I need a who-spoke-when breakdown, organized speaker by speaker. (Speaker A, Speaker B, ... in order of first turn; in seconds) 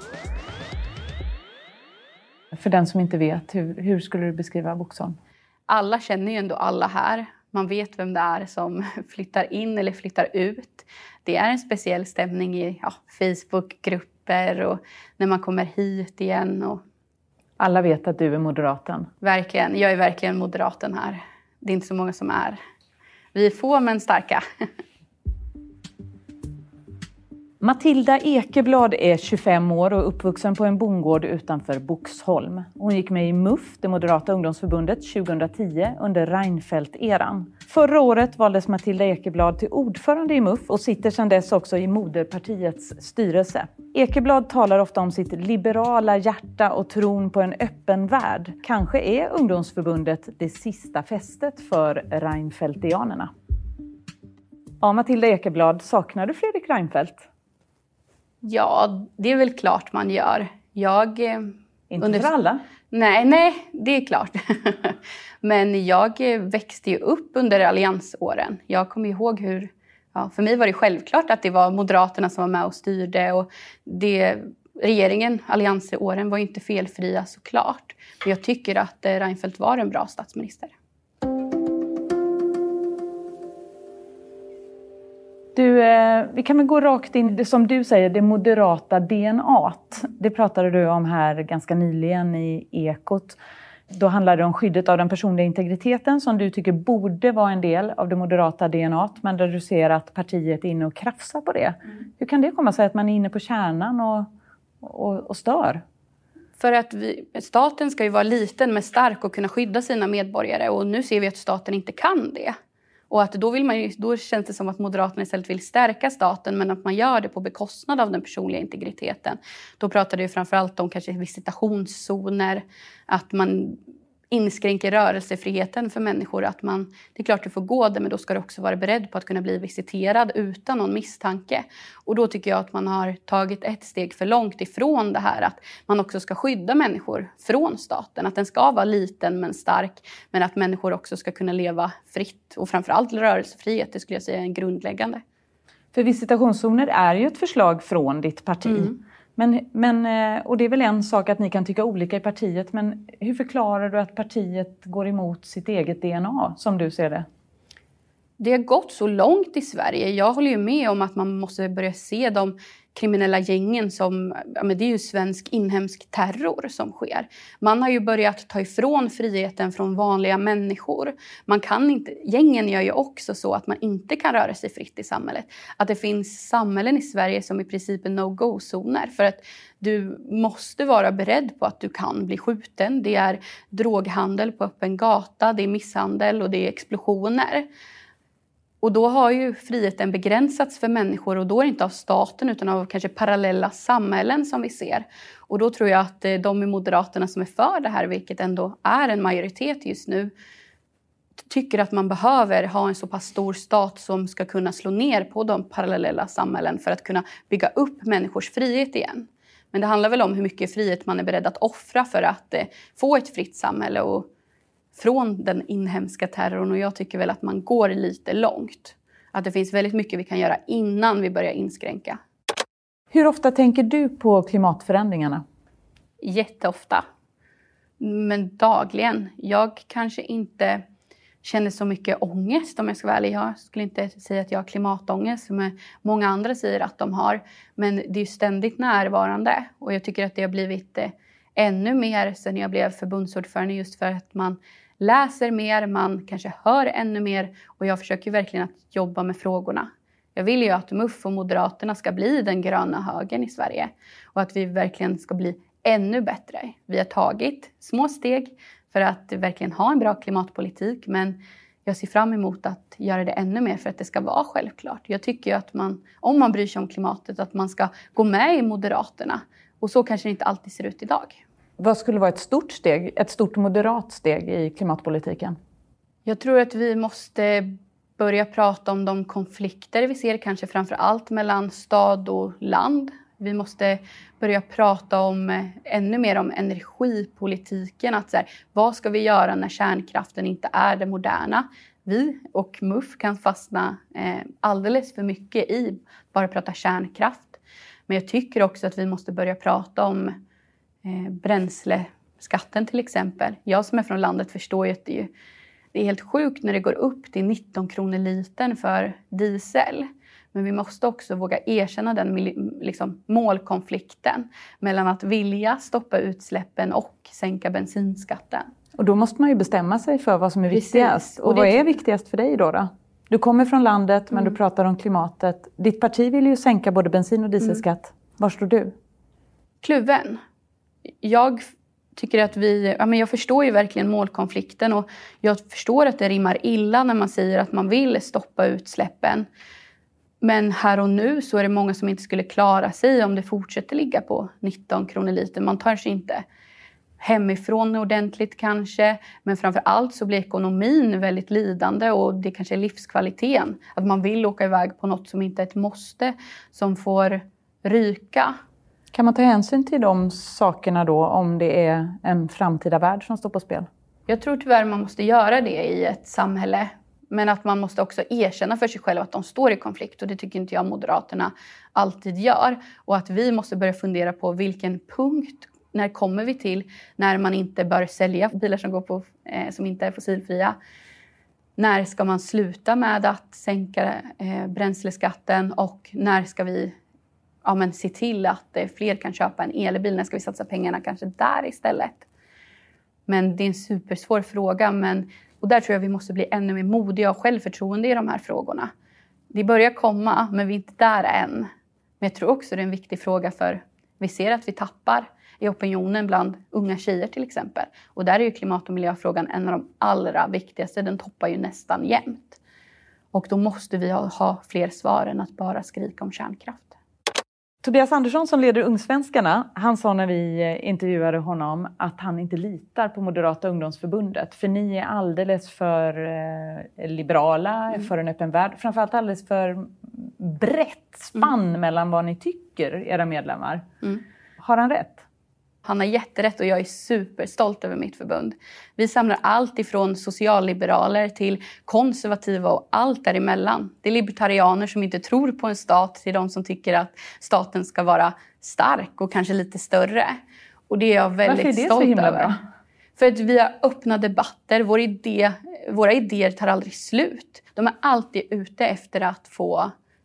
Speaker A: 2.5-5.2, 17.6-19.1, 27.6-53.3, 54.8-57.2, 61.9-62.6, 85.5-93.4, 93.9-104.3, 104.8-105.8, 145.9-157.2, 223.1-225.4, 271.8-275.6, 319.0-328.9, 359.1-363.9, 417.8-433.8, 434.6-435.2, 451.4-452.6
Speaker B: 5.7-16.8, 19.2-22.6, 23.3-24.4, 58.4-62.3, 62.9-80.7, 106.6-112.5, 113.1-123.8, 124.3-145.2, 148.7-148.9, 158.4-187.7, 188.8-200.3, 201.5-214.3, 214.9-222.2, 226.2-227.0, 228.0-230.8, 231.4-271.4, 276.2-300.3, 301.0-305.3, 305.9-318.6, 320.7-321.8, 329.8-330.4, 331.2-331.6, 332.1-339.5, 340.4-346.4, 347.2-358.5, 364.3-380.8, 381.8-386.9, 387.6-392.2, 393.3-398.9, 399.5-401.7, 402.2-412.6, 413.3-416.9, 435.8-450.3, 450.9-452.6, 453.2-459.9